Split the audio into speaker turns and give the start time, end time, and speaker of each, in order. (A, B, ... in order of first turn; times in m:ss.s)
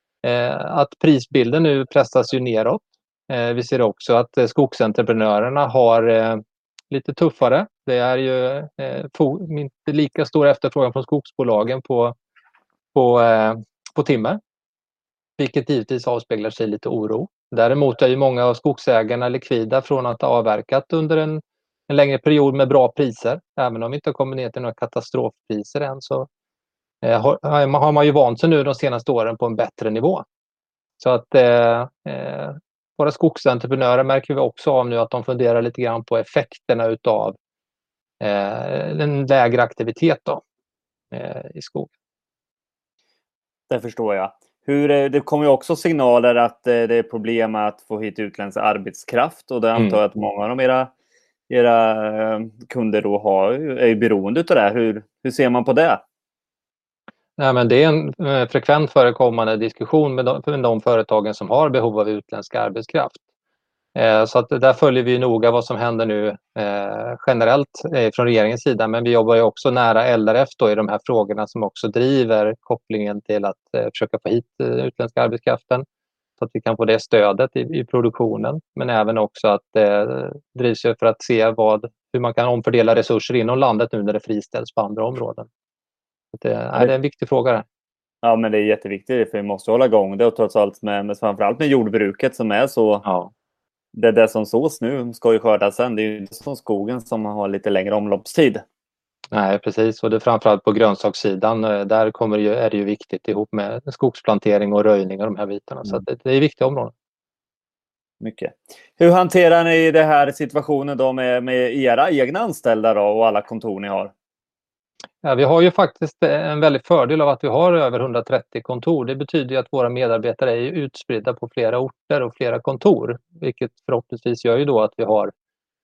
0:00.2-0:12.2 A
0:12.9-0:14.4 A
0:15.4-0:26.3 A
0:27.0-0:30.2 A
0:31.0-0:37.4 A
0:38.2-0:40.4 A
0:41.1-0:41.9 A
0:43.7-0:50.9 B
0:51.5-0:56.0 B
0:57.4-1:03.2 A
1:03.9-1:15.8 A
1:16.4-1:25.5 A
1:26.3-1:27.6 A
1:28.2-1:33.0 B
1:33.0-1:33.3 A
1:33.9-1:38.6 B
1:39.3-1:46.9 A
1:48.2-1:54.1 B
1:55.2-2:05.3 A